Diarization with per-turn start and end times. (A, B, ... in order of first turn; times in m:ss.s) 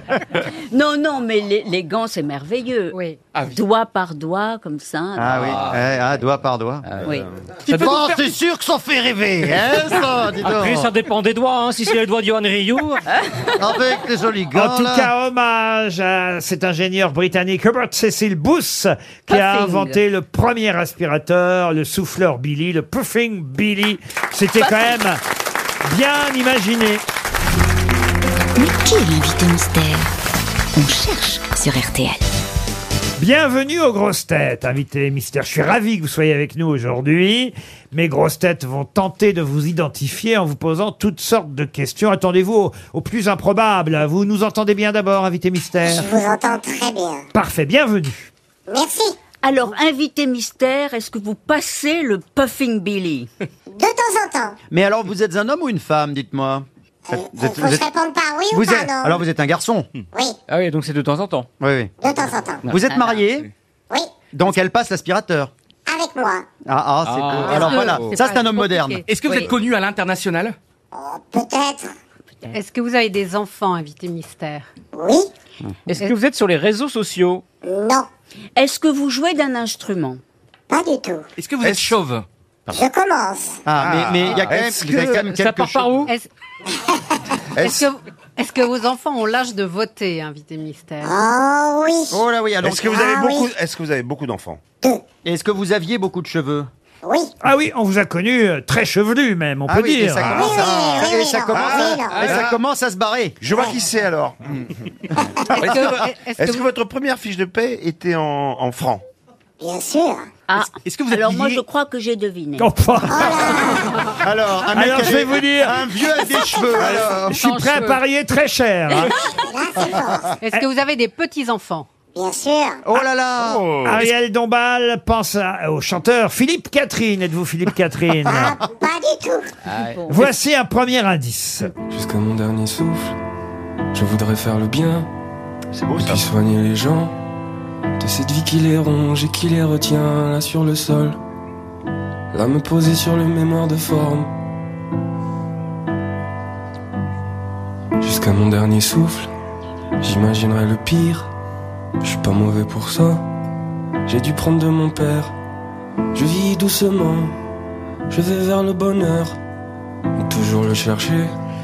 0:00.7-0:03.0 A
0:02.9-0:03.2 B
0:03.5-0:05.8 A
0:05.2-0:10.9 C
0:05.4-0:05.8 D
0:07.0-0:07.2 A
0:07.7-0:08.2 D
0:10.4-0:13.0 D
0:13.1-0:13.6 A
0:13.6-0:15.1 C
0:14.5-0:25.2 E
0:19.3-0:20.0 A
0:24.6-0:25.0 A
0:25.8-0:27.0 E
0:28.6-0:30.2 F
0:30.7-0:32.2 F
0:33.2-0:46.1 E
0:45.8-0:47.2 G
0:47.3-0:48.3 E
0:48.7-0:49.2 G
0:49.4-0:53.3 A
0:53.7-0:54.6 G
0:54.7-0:57.9 C
0:57.1-0:59.2 G
0:58.5-0:59.9 C
1:00.5-1:01.5 D
1:01.6-1:01.9 C
1:02.0-1:02.6 G
1:02.6-1:03.5 C
1:02.9-1:03.2 A
1:04.3-1:05.5 C
1:05.9-1:06.4 G
1:06.6-1:09.0 C
1:07.0-1:08.2 D
1:07.3-1:09.4 B
1:09.1-1:10.6 H
1:10.9-1:11.9 G
1:12.5-1:14.7 B
1:14.9-1:15.3 G
1:15.9-1:17.4 D
1:17.6-1:18.1 G
1:18.6-1:20.2 A
1:20.7-1:21.2 G
1:21.4-1:22.2 H
1:21.6-1:22.0 I
1:22.7-1:23.6 G
1:23.6-1:26.0 C
1:23.8-1:25.2 I
1:24.9-1:26.1 D
1:27.6-1:27.8 I
1:27.6-1:31.2 B
1:31.0-1:32.2 G
1:32.1-1:33.0 C
1:32.6-1:34.6 I
1:32.8-1:33.5 G
1:35.2-1:36.7 C
1:37.0-1:37.3 G
1:37.4-1:40.5 E
1:39.7-1:43.4 C
1:40.2-1:42.4 G
1:41.5-1:42.6 I
1:43.4-1:44.6 I
1:45.5-1:49.0 I
1:45.6-1:46.7 B
1:49.6-1:50.2 G
1:50.5-1:52.7 A
1:50.6-1:51.6 H
1:52.6-1:53.7 E
1:53.1-1:53.9 G
1:54.2-1:57.4 C
1:54.7-1:55.8 E
1:56.8-1:57.2 I
1:57.3-1:58.0 B
1:57.4-1:59.2 E
1:59.4-2:00.3 G
2:00.4-2:01.9 B
2:02.1-2:02.8 G
2:02.8-2:03.6 C
2:03.4-2:04.1 I
2:03.8-2:08.6 E
2:08.2-2:09.5 G
2:09.7-2:10.0 D
2:09.9-2:10.3 A
2:10.1-2:11.7 E
2:11.9-2:13.1 J
2:13.9-2:15.1 J
2:15.8-2:16.2 C
2:15.9-2:17.1 J
2:18.0-2:21.2 J
2:22.3-2:24.3 J
2:28.0-2:29.3 J
2:30.0-2:31.3 J
2:32.0-2:33.2 J
2:34.0-2:35.3 J
2:36.1-2:37.3 J
2:38.1-2:39.4 J
2:40.2-2:41.3 J